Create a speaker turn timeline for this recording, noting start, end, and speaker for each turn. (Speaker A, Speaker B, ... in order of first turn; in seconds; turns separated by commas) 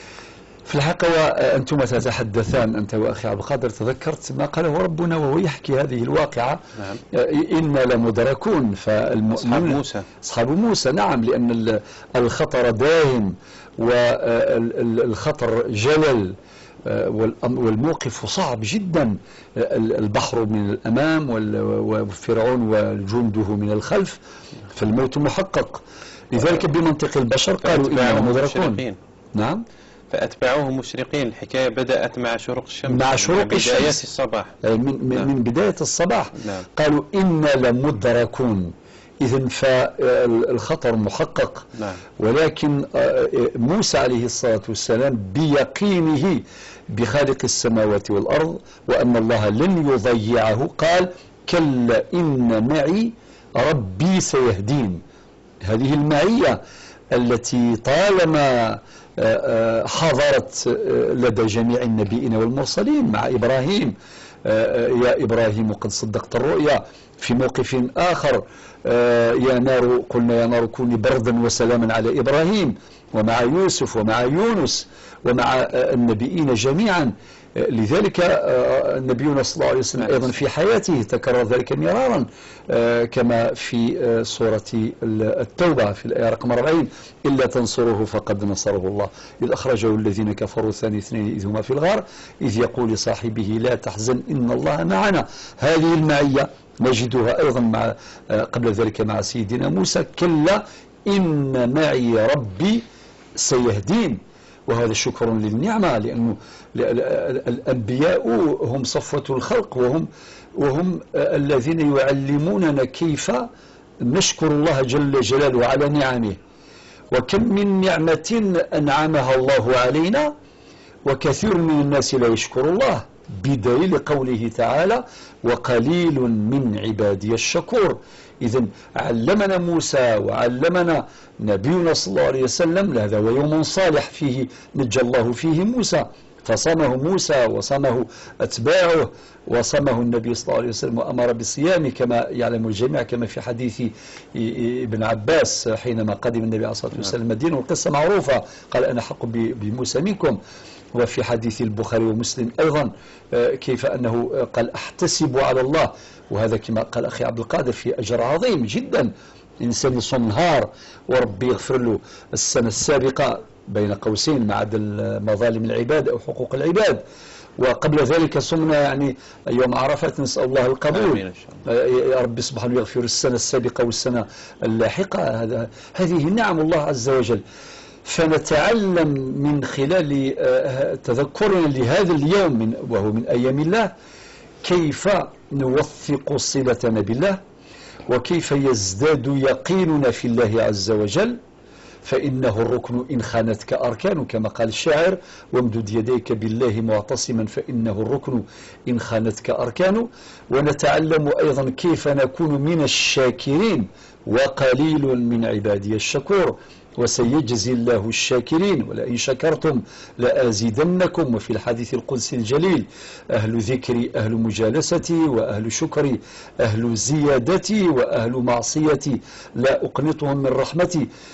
Speaker A: 0.7-6.6, Speaker A: 7.1-24.2, Speaker B: 9.3-10.1, Speaker A: 24.7-25.8, Speaker A: 26.3-28.8, Speaker B: 27.6-29.0, Speaker A: 29.4-29.6, Speaker B: 30.1-34.5, Speaker A: 32.9-34.0, Speaker A: 34.6-41.6, Speaker B: 36.4-36.6, Speaker A: 42.2-55.0, Speaker A: 55.7-56.6, Speaker A: 57.1-63.9, Speaker A: 64.5-102.8, Speaker B: 80.0-80.3, Speaker A: 103.4-113.5, Speaker A: 114.0-116.4, Speaker A: 117.1-120.3, Speaker A: 121.1-150.4, Speaker A: 150.9-159.1, Speaker A: 159.6-167.0, Speaker A: 167.6-177.4, Speaker B: 170.9-171.6, Speaker A: 178.1-183.9, Speaker A: 184.6-187.4, Speaker A: 188.1-191.4, Speaker A: 192.1-221.1